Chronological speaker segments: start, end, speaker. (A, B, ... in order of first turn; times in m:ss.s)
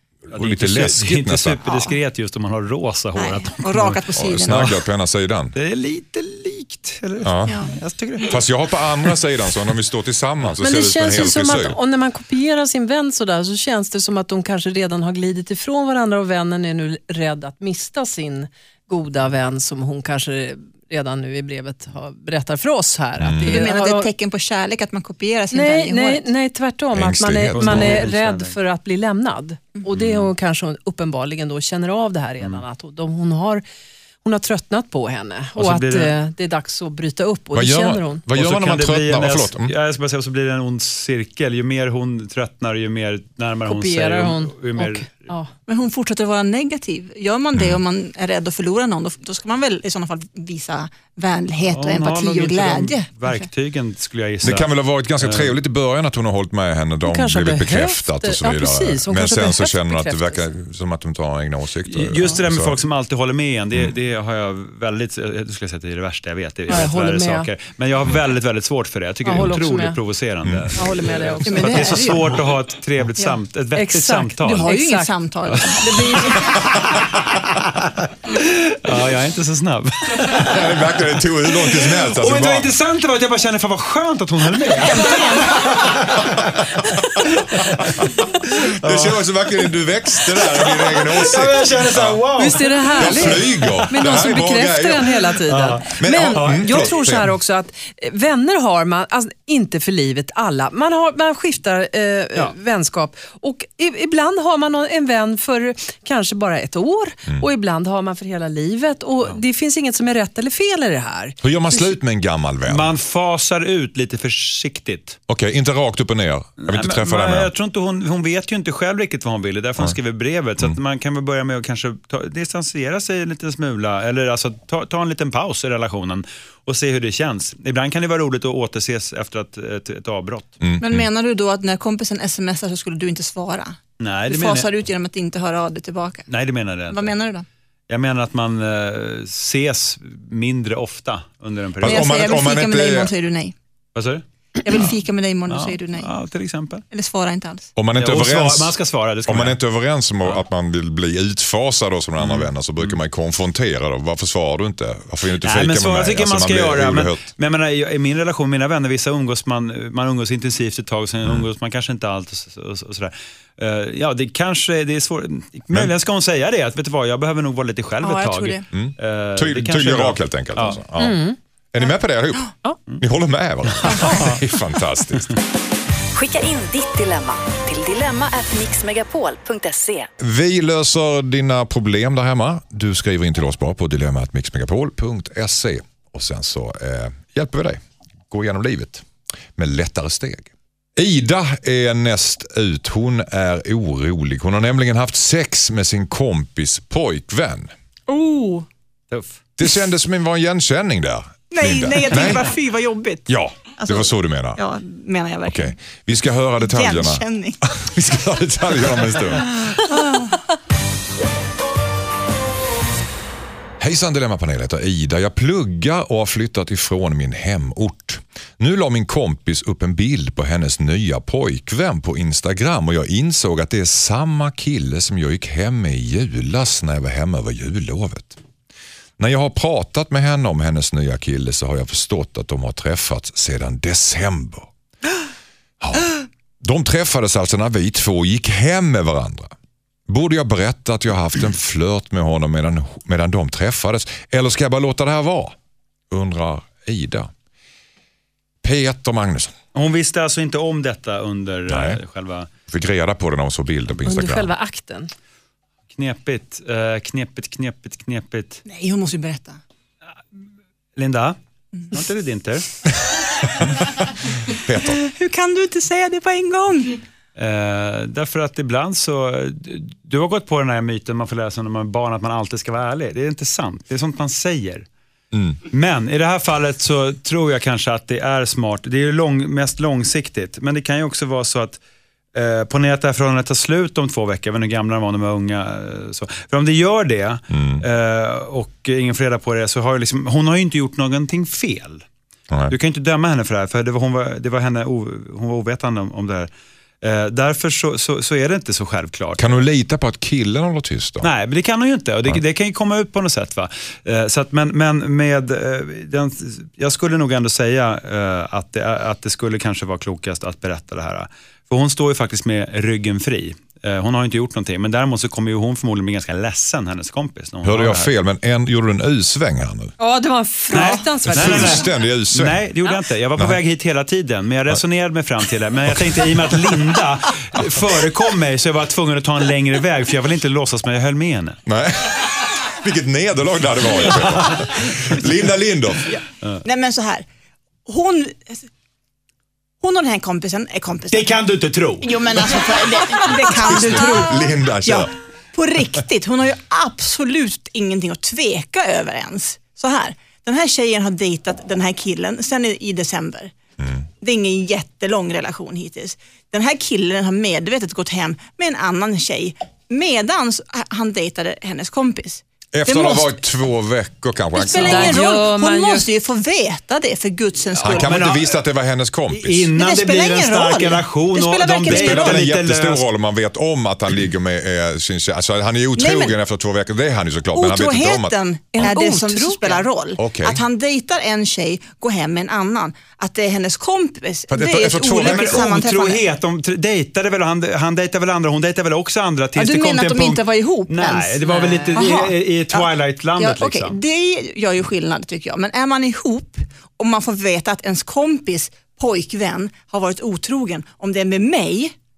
0:00.3-0:01.6 A
0:00.3-0:04.8 B
0:01.6-0:01.9 C
0:03.2-0:04.7 C
0:04.1-0:05.6 A
0:05.6-0:08.4 B
0:07.2-0:07.6 A
0:08.3-0:11.8 A
0:10.6-0:24.1 D
0:23.2-0:23.7 A
0:23.4-0:26.3 C
0:25.5-0:33.6 D
0:27.0-0:28.0 A
0:27.6-0:28.6 B
0:34.2-0:38.2 D
0:35.6-0:36.1 B
0:37.5-0:39.7 A
0:38.4-0:45.3 B
0:43.7-0:45.5 D
0:45.7-0:53.5 C
0:47.5-0:47.8 A
0:51.7-0:54.7 B
0:54.4-1:02.8 A
0:55.2-0:55.5 B
0:57.0-1:00.4 D
1:01.9-1:14.7 B
1:06.7-1:07.5 D
1:09.2-1:10.0 D
1:10.4-1:10.7 A
1:10.7-1:12.2 D
1:11.4-1:12.2 C
1:13.8-1:15.1 D
1:14.4-1:16.7 C
1:15.5-1:17.7 B
1:18.2-1:20.9 B
1:20.3-1:22.7 A
1:21.5-1:34.1 B
1:24.8-1:25.9 C
1:26.2-1:26.6 A
1:27.8-1:28.2 A
1:28.8-1:32.2 A
1:32.4-1:51.9 D
1:33.0-1:35.3 A
1:35.5-1:36.9 B
1:35.8-1:37.3 A
1:51.4-1:52.9 A
1:52.7-1:55.2 B
1:55.3-1:57.5 A
1:56.6-2:10.6 B
2:10.6-2:11.1 A
2:10.8-2:16.3 C
2:14.0-2:14.7 B
2:16.3-2:17.1 B
2:16.9-2:17.5 C
2:17.9-2:22.1 B
2:21.8-2:23.1 A
2:21.8-2:23.6 C
2:24.0-2:24.2 B
2:24.6-2:26.1 C
2:25.5-2:26.8 B
2:26.9-2:27.7 C
2:27.8-2:37.2 A
2:28.0-2:29.6 B
2:32.2-2:33.0 B
2:35.4-2:50.8 B
2:48.0-2:48.7 C
2:48.7-2:55.4 A
2:51.0-2:51.4 D
2:53.8-2:54.4 B
2:53.9-2:54.2 C
2:56.1-3:00.1 E
3:00.2-3:17.7 A
3:18.1-3:18.7 C
3:19.1-3:19.4 B
3:19.6-3:22.5 A
3:21.5-3:25.8 C
3:23.3-3:24.6 A
3:25.5-3:29.6 A
3:26.6-3:27.6 C
3:29.7-3:30.4 C
3:33.8-3:48.4 A
3:49.2-3:54.7 A
3:55.8-3:59.5 A
4:00.1-4:05.6 A
4:06.1-4:07.3 A
4:08.6-4:09.6 A
4:09.7-4:12.5 B
4:11.7-4:12.0 A
4:12.7-4:14.5 A
4:14.0-4:15.1 D
4:15.9-4:18.6 B
4:18.7-4:19.6 C
4:21.0-4:21.4 B
4:21.9-4:22.7 B
4:23.5-4:25.0 A
4:24.9-4:27.0 C
4:27.4-4:34.8 B
4:35.3-4:35.6 A
4:35.7-4:41.8 B
4:42.4-4:52.0 B
4:47.5-4:47.8 A
4:52.5-4:52.8 A
4:52.7-4:56.5 B
4:57.0-4:59.6 B
4:59.4-5:01.3 A
5:01.2-5:18.1 B
5:17.6-5:19.9 A
5:20.0-5:21.9 D
5:20.7-5:31.6 B
5:21.2-5:22.7 A
5:25.9-5:26.8 A
5:31.7-5:36.1 A
5:34.0-5:34.8 B
5:36.1-5:37.2 C
5:37.9-5:38.7 C
5:39.8-5:41.3 C
5:41.1-5:42.4 B
5:42.0-5:53.5 C
5:43.6-5:45.1 A
5:53.8-5:54.1 A
5:54.2-6:03.3 C
6:02.7-6:05.3 A
6:04.6-6:08.2 C
6:04.8-6:06.1 D
6:07.8-6:08.6 B
6:07.8-6:09.7 A
6:09.3-6:13.0 B
6:09.8-6:12.4 C
6:11.9-6:18.4 A
6:16.0-6:16.4 C
6:17.5-6:26.2 C
6:18.8-6:19.8 D
6:20.2-6:20.6 A
6:24.5-6:25.7 A
6:25.1-6:34.0 B
6:29.6-6:41.9 C
6:31.4-6:32.0 D